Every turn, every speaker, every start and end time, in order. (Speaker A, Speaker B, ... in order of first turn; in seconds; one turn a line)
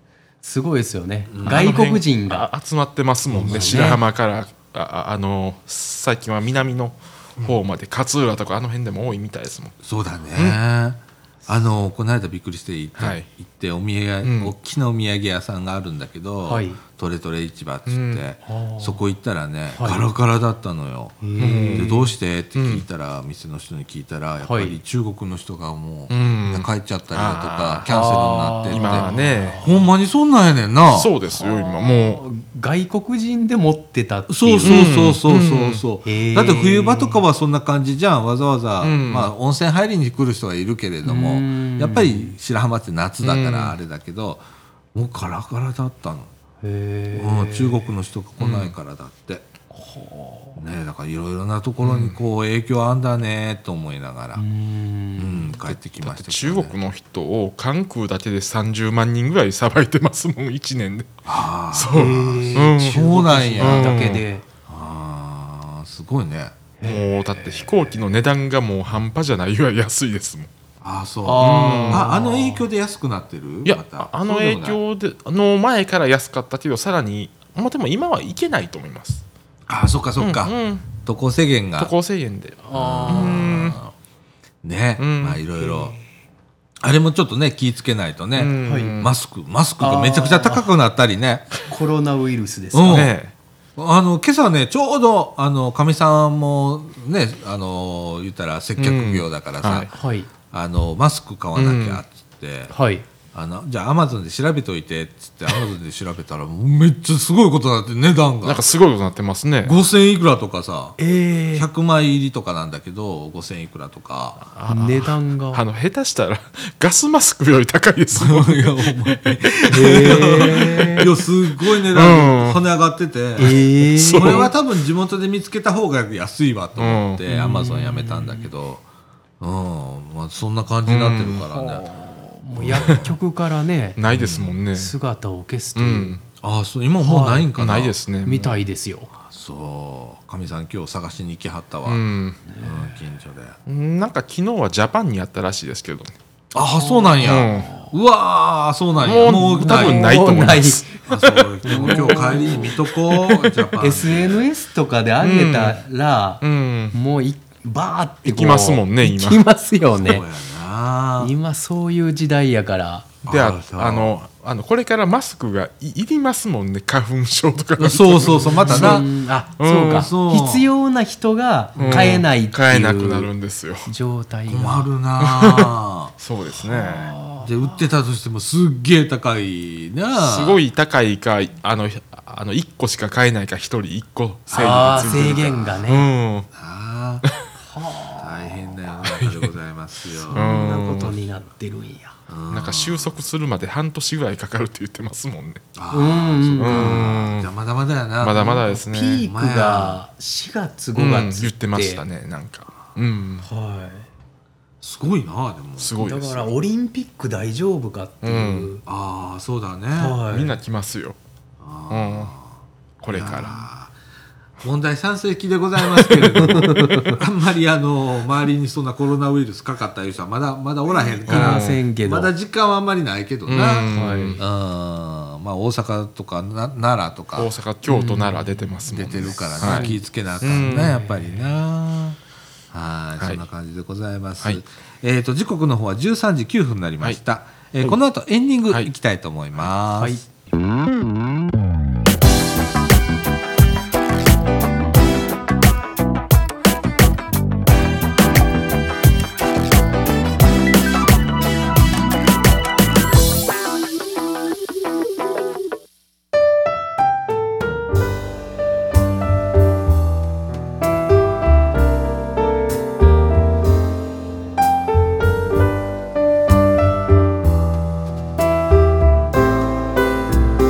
Speaker A: 0.4-2.5
Speaker B: 1.3-1.8
Speaker C: 1.4-9.7
Speaker A: 3.3-4.0
Speaker B: 3.4-4.0
Speaker B: 9.8-31.1
Speaker C: 12.9-13.3
Speaker C: 14.2-14.5
Speaker A: 16.4-16.8
Speaker C: 17.9-18.2
Speaker A: 18.5-19.0
Speaker A: 19.7-20.0
Speaker A: 21.2-22.1
Speaker C: 21.4-21.9
Speaker C: 22.6-22.8
Speaker A: 24.4-24.8
Speaker C: 26.1-28.0
Speaker A: 27.9-29.9
Speaker C: 28.7-29.6
Speaker C: 30.9-32.2
Speaker A: 31.3-35.0
Speaker B: 34.3-44.4
Speaker C: 34.6-35.8
Speaker A: 36.0-37.2
Speaker C: 38.8-39.3
Speaker A: 41.0-42.3
Speaker C: 43.2-43.8
Speaker B: 44.9-46.3
Speaker A: 46.6-47.9
Speaker B: 47.1-49.5
Speaker C: 48.4-48.7
Speaker A: 49.7-50.6
Speaker B: 50.6-54.4
Speaker C: 51.8-52.2
Speaker A: 54.4-55.5
Speaker B: 55.2-56.8
Speaker C: 55.7-63.0
Speaker B: 61.3-64.0
Speaker A: 61.9-64.4
Speaker C: 63.6-64.2
Speaker B: 64.7-66.5
Speaker A: 66.8-67.1
Speaker C: 66.8-70.5
Speaker B: 67.4-68.0
Speaker B: 70.8-74.8
Speaker A: 71.2-72.7
Speaker C: 71.4-72.1
Speaker C: 73.6-79.2
Speaker B: 79.7-81.9
Speaker C: 80.2-80.9
Speaker C: 81.8-83.8
Speaker A: 82.6-83.7
Speaker B: 82.7-83.9
Speaker B: 84.6-86.0
Speaker C: 85.0-85.4
Speaker A: 85.6-86.0
Speaker B: 86.8-91.6
Speaker C: 88.4-89.1
Speaker A: 88.6-89.0
Speaker A: 89.8-90.7
Speaker A: 91.7-93.1
Speaker B: 92.7-93.1
Speaker C: 92.9-93.3
Speaker B: 93.8-99.9
Speaker C: 98.8-99.9
Speaker A: 99.9-100.3
Speaker B: 100.5-102.7
Speaker C: 101.5-102.0
Speaker A: 102.7-103.0
Speaker B: 103.3-108.7
Speaker C: 108.4-109.8
Speaker B: 109.6-111.0
Speaker A: 111.0-111.7
Speaker B: 111.5-114.5
Speaker C: 114.5-122.6
Speaker A: 114.7-115.6
Speaker B: 118.1-128.8
Speaker A: 119.7-121.1
Speaker A: 123.4-124.5
Speaker C: 123.4-124.5
Speaker C: 126.8-127.2
Speaker A: 127.3-128.5
Speaker B: 129.4-131.9
Speaker C: 130.9-131.5
Speaker A: 131.5-134.0
Speaker B: 132.6-133.1
Speaker C: 132.7-133.1
Speaker C: 134.0-134.9
Speaker B: 134.1-134.6
Speaker A: 134.7-136.2
Speaker C: 135.7-136.2
Speaker B: 136.4-137.9
Speaker A: 137.0-137.5
Speaker C: 137.6-138.6
Speaker A: 138.2-139.1
Speaker B: 139.3-142.0
Speaker C: 141.9-142.4
Speaker A: 142.5-142.9
Speaker B: 142.6-143.6
Speaker C: 143.7-146.1
Speaker B: 146.5-150.2
Speaker A: 146.8-147.9
Speaker C: 147.2-147.7
Speaker C: 149.0-153.7
Speaker A: 149.3-150.9
Speaker B: 151.1-154.4
Speaker A: 151.6-152.8
Speaker A: 153.8-160.2
Speaker C: 155.2-155.8
Speaker C: 156.4-156.9
Speaker C: 158.3-159.4
Speaker B: 159.9-161.3
Speaker A: 161.2-163.1
Speaker B: 163.3-164.1
Speaker C: 163.3-169.1
Speaker B: 167.8-169.1
Speaker A: 168.2-173.3
Speaker C: 169.6-170.1
Speaker B: 169.9-170.7
Speaker B: 171.8-172.2
Speaker C: 171.8-173.9
Speaker A: 173.9-174.9
Speaker B: 174.5-180.6
Speaker C: 175.2-177.1
Speaker A: 177.1-177.9
Speaker C: 180.1-186.5
Speaker B: 184.5-185.6
Speaker A: 184.5-186.1
Speaker B: 186.5-187.3
Speaker A: 187.6-188.7
Speaker B: 188.2-190.5
Speaker C: 189.0-189.5
Speaker C: 190.3-191.1
Speaker A: 190.3-192.1
Speaker B: 192.3-193.2
Speaker C: 192.5-195.6
Speaker B: 195.7-198.6
Speaker A: 195.9-197.4
Speaker C: 196.6-197.5
Speaker C: 198.2-199.3
Speaker A: 198.4-202.0
Speaker B: 199.2-200.0
Speaker C: 200.9-203.4
Speaker A: 203.4-204.1
Speaker B: 204.8-206.1
Speaker C: 205.8-206.5
Speaker A: 206.0-208.8
Speaker C: 208.2-208.7
Speaker B: 208.9-210.2
Speaker A: 209.9-210.6
Speaker C: 210.3-211.2
Speaker B: 211.6-213.9
Speaker C: 211.9-212.3
Speaker C: 213.0-213.7
Speaker B: 214.6-227.5
Speaker C: 215.9-216.6
Speaker A: 216.3-217.2
Speaker A: 221.2-222.3
Speaker C: 221.3-221.8
Speaker C: 223.5-224.4
Speaker A: 223.6-224.4
Speaker C: 227.3-231.0
Speaker A: 227.9-228.7
Speaker B: 228.9-232.2
Speaker A: 229.6-230.0
Speaker A: 230.8-231.4
Speaker B: 232.7-240.2
Speaker C: 233.2-233.4